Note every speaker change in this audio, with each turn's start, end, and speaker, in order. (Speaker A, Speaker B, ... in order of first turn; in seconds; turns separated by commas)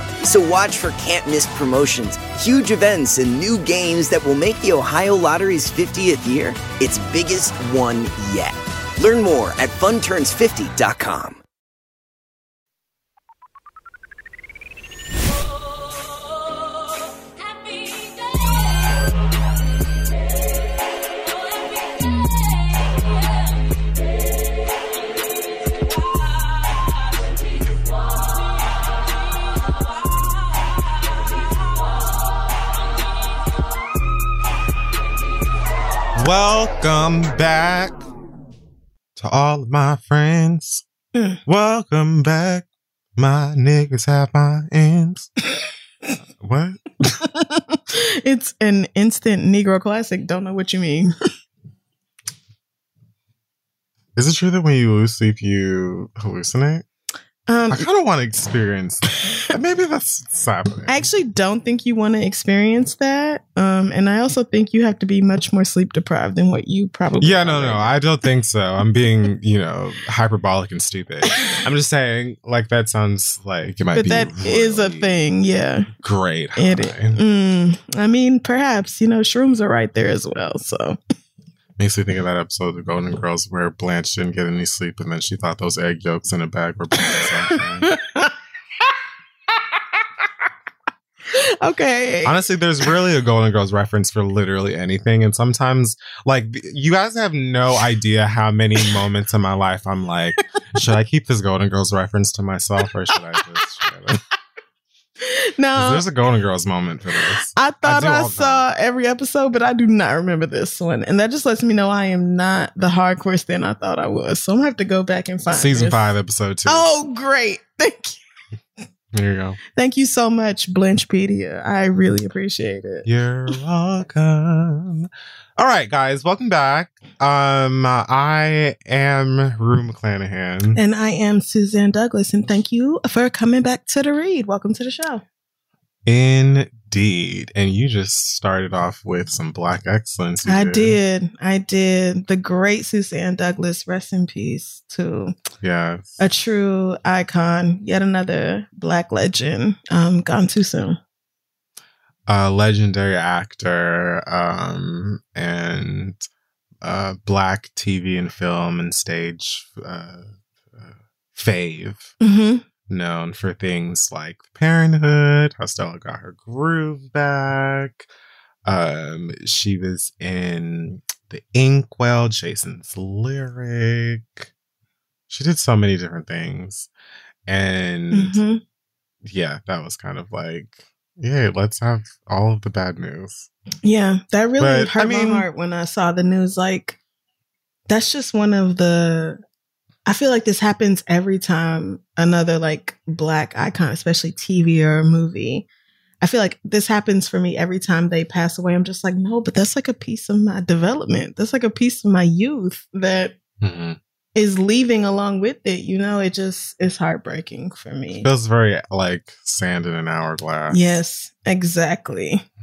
Speaker A: 0.2-11.4, Speaker B: 36.1-38.0, Speaker B: 39.1-40.8, Speaker C: 41.1-41.4, Speaker B: 41.5-45.3, Speaker B: 46.4-46.8, Speaker C: 47.1-51.1, Speaker B: 54.1-56.8, Speaker C: 57.5-57.9, Speaker B: 57.7-61.0, Speaker C: 60.9-67.9, Speaker B: 67.2-75.2, Speaker C: 71.3-71.6, Speaker C: 73.9-75.9, Speaker B: 76.0-77.2, Speaker C: 76.5-81.0, Speaker B: 81.8-87.9, Speaker C: 87.0-88.3, Speaker C: 91.3-92.4, Speaker B: 92.2-104.2, Speaker C: 105.2-106.0, Speaker B: 105.8-108.6, Speaker C: 107.5-116.1, Speaker B: 115.5-116.9, Speaker C: 116.7-118.2, Speaker B: 119.1-119.6, Speaker C: 119.8-123.0, Speaker B: 123.0-130.8, Speaker C: 130.7-135.2, Speaker B: 136.1-140.9, Speaker C: 140.4-145.3, Speaker B: 145.6-146.2, Speaker C: 146.2-151.0, Speaker B: 152.3-156.2, Speaker B: 156.8-162.1, Speaker C: 162.2-162.6, Speaker B: 162.9-168.1, Speaker B: 168.6-174.5, Speaker B: 175.3-176.9, Speaker B: 177.5-178.4, Speaker C: 178.1-178.6, Speaker B: 179.2-183.5, Speaker C: 183.8-187.0, Speaker B: 184.6-185.5, Speaker C: 187.9-189.4, Speaker C: 190.1-195.7, Speaker C: 196.2-203.3, Speaker B: 203.6-204.0, Speaker C: 204.3-208.3, Speaker B: 208.2-210.8, Speaker C: 210.7-212.4